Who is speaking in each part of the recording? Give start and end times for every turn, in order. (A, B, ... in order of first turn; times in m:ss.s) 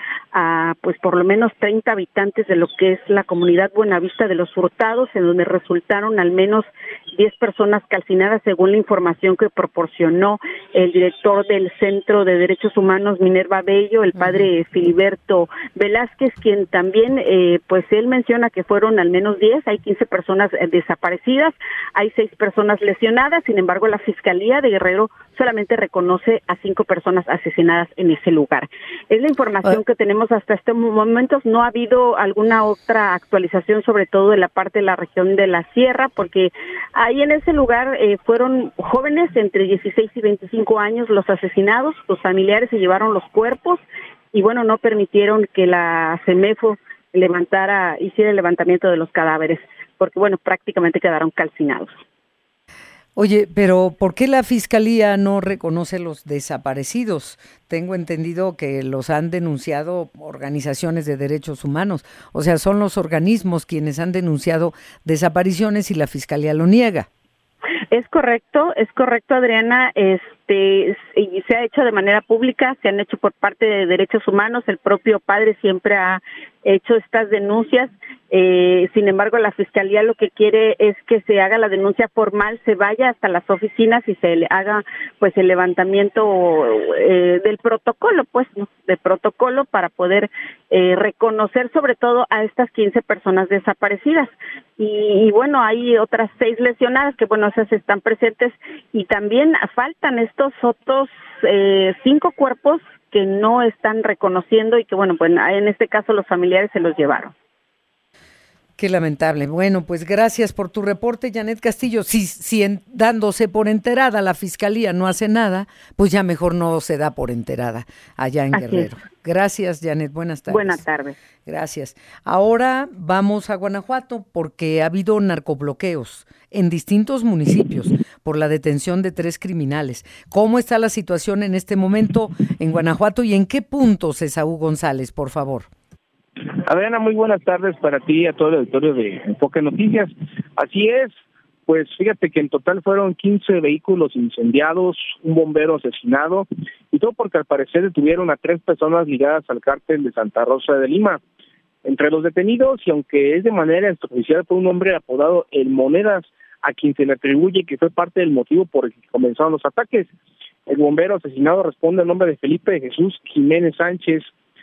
0:00.3-0:43.8 A
0:44.3-0:52.0 A
0:53.2-1:07.1 B
1:07.9-1:47.3 A
1:48.8-2:00.8 B
1:58.5-1:58.9 A
2:00.5-2:01.2 A
2:01.5-2:15.7 B
2:16.7-2:31.2 C
2:31.8-2:40.1 C
2:40.7-2:44.3 C